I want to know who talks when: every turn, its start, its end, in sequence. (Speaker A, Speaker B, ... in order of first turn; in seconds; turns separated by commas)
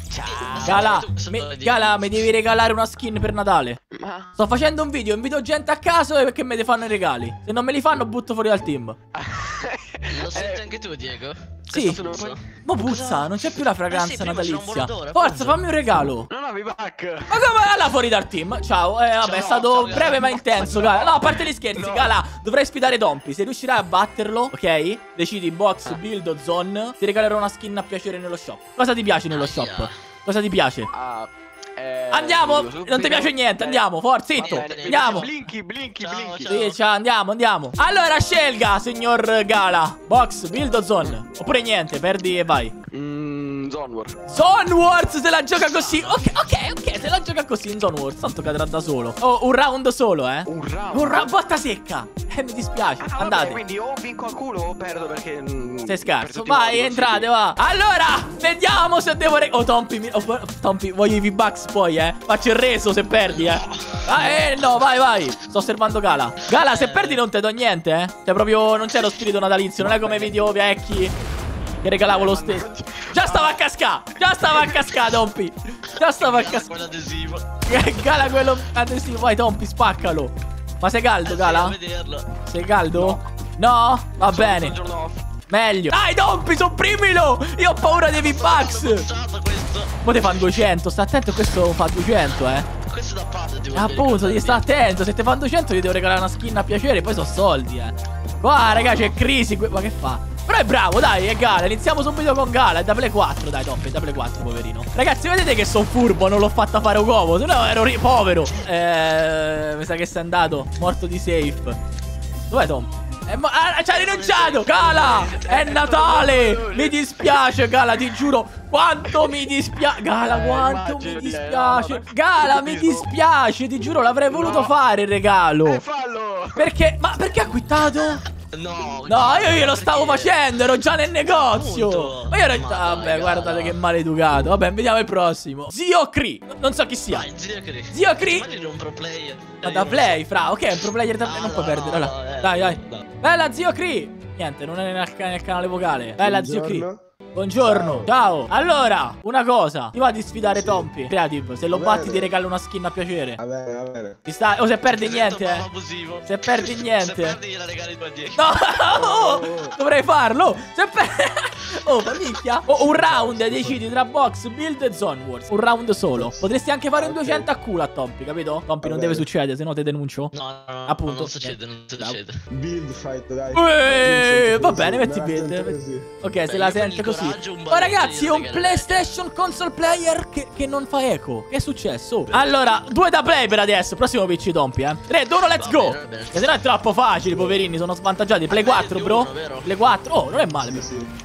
Speaker A: 0.1-0.9, Speaker B: 0.2-2.2, Speaker C: 0.6-3.8, Speaker A: 3.9-4.3, Speaker C: 4.4-8.9, Speaker A: 9.2-10.7, Speaker B: 10.1-15.6, Speaker C: 11.7-12.0, Speaker A: 11.8-12.4, Speaker C: 12.6-16.3, Speaker A: 16.3-17.4, Speaker C: 17.3-30.9, Speaker B: 19.2-20.4, Speaker A: 20.2-22.2, Speaker B: 29.3-29.9, Speaker A: 30.9-36.6, Speaker C: 32.1-35.3, Speaker B: 34.4-35.3, Speaker B: 36.0-36.8, Speaker C: 36.5-42.7, Speaker A: 42.9-44.2, Speaker C: 44.3-53.6, Speaker B: 45.6-46.4, Speaker A: 50.5-51.3, Speaker A: 53.0-57.3, Speaker C: 55.9-71.1, Speaker B: 63.3-64.4, Speaker B: 66.6-67.2, Speaker A: 70.1-70.4, Speaker C: 71.8-76.8, Speaker A: 72.0-73.6, Speaker B: 76.1-78.3, Speaker C: 77.7-81.8, Speaker B: 81.2-82.3, Speaker C: 82.5-84.8, Speaker A: 84.2-85.2, Speaker C: 85.5-89.0, Speaker B: 88.0-90.7, Speaker C: 90.0-92.7, Speaker B: 92.8-94.6, Speaker C: 93.7-111.8, Speaker B: 98.7-99.1, Speaker C: 112.5-125.8, Speaker B: 113.9-115.4, Speaker A: 114.7-117.3, Speaker A: 120.1-123.1, Speaker A: 124.3-124.7, Speaker A: 125.6-126.7, Speaker C: 126.5-128.2, Speaker B: 128.4-130.6, Speaker C: 129.1-137.3, Speaker B: 131.2-133.8, Speaker B: 137.1-140.2, Speaker C: 137.9-138.4, Speaker C: 139.6-153.4, Speaker B: 141.2-143.1, Speaker D: 146.2-147.0, Speaker D: 147.6-148.1, Speaker D: 150.5-150.9, Speaker D: 151.7-152.3, Speaker D: 153.4-154.2, Speaker C: 154.2-155.7, Speaker B: 154.9-158.5, Speaker C: 156.2-157.4, Speaker C: 158.4-170.3, Speaker D: 158.9-159.8, Speaker D: 162.8-163.7, Speaker D: 166.1-167.5, Speaker D: 168.8-169.3, Speaker B: 170.3-172.3, Speaker C: 170.9-172.2, Speaker D: 172.5-176.1, Speaker C: 173.5-190.9, Speaker B: 176.4-179.1, Speaker B: 185.6-186.6, Speaker D: 187.2-187.6, Speaker B: 188.5-189.7, Speaker D: 190.4-191.1